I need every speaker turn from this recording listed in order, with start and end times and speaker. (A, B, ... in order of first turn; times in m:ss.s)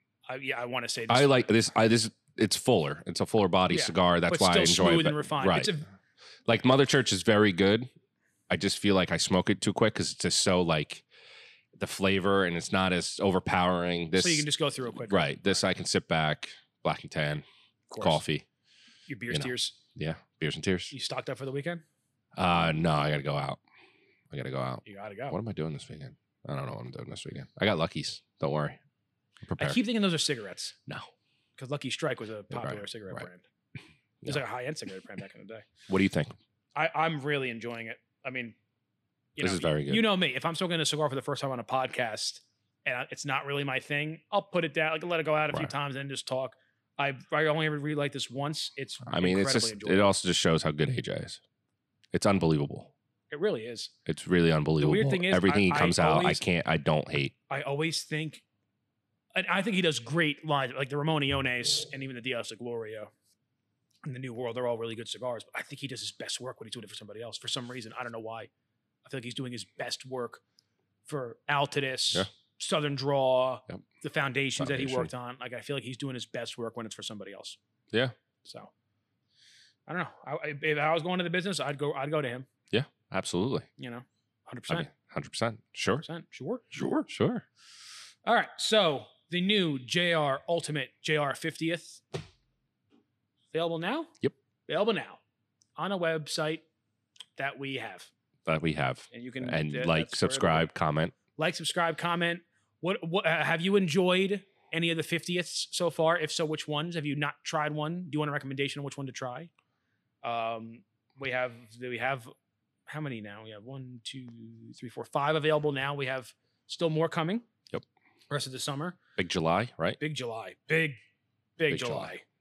0:00.3-0:01.4 A
0:01.1-0:05.7 B
0:03.7-0:05.8 A
0:06.5-0:07.9 B
0:08.5-0:11.0 B
0:11.8-0:14.5 B
0:14.2-0:15.6 A
0:15.1-0:17.4 B
0:17.9-0:18.2 A
0:18.0-0:18.4 B
0:19.1-0:19.8 A
0:19.3-0:20.9 B
0:20.9-0:21.8 A
0:22.4-0:23.6 B
0:24.3-0:28.8 B
0:24.8-0:25.4 A
0:29.4-0:29.8 B
0:29.6-0:30.8 A
0:31.6-0:33.4 A
0:32.5-0:33.3 B
0:34.2-0:35.7 A
0:35.9-0:36.4 B
0:36.8-0:38.6 A
0:39.4-0:50.1 A
0:39.4-0:40.0 B
0:49.1-0:51.4 B
0:52.1-0:52.9 B
0:53.3-0:53.9 A
0:54.1-0:57.3 B
0:54.8-0:56.4 A
0:57.5-0:58.4 A
0:59.4-1:03.1 A
1:04.0-1:08.5 A
1:09.0-1:10.4 A
1:11.1-1:17.6 A
1:14.6-1:15.1 B
1:18.4-1:18.7 A
1:19.9-1:22.5 A
1:22.7-1:23.7 B
1:23.8-1:24.9 A
1:24.7-1:26.1 B
1:26.0-1:26.7 A
1:26.7-1:27.4 B
1:28.2-1:32.0 A
1:33.5-1:34.1 A
1:34.7-1:35.2 A
1:35.8-1:36.6 A
1:37.4-1:38.1 A
1:38.5-1:41.2 B
1:39.1-1:40.7 A
1:41.4-1:49.5 A
1:50.2-1:52.3 A
1:52.9-1:57.4 A
1:58.3-1:59.0 A
1:59.2-2:00.0 B
2:00.0-2:01.0 A
2:01.6-2:02.2 A
2:01.7-2:02.1 B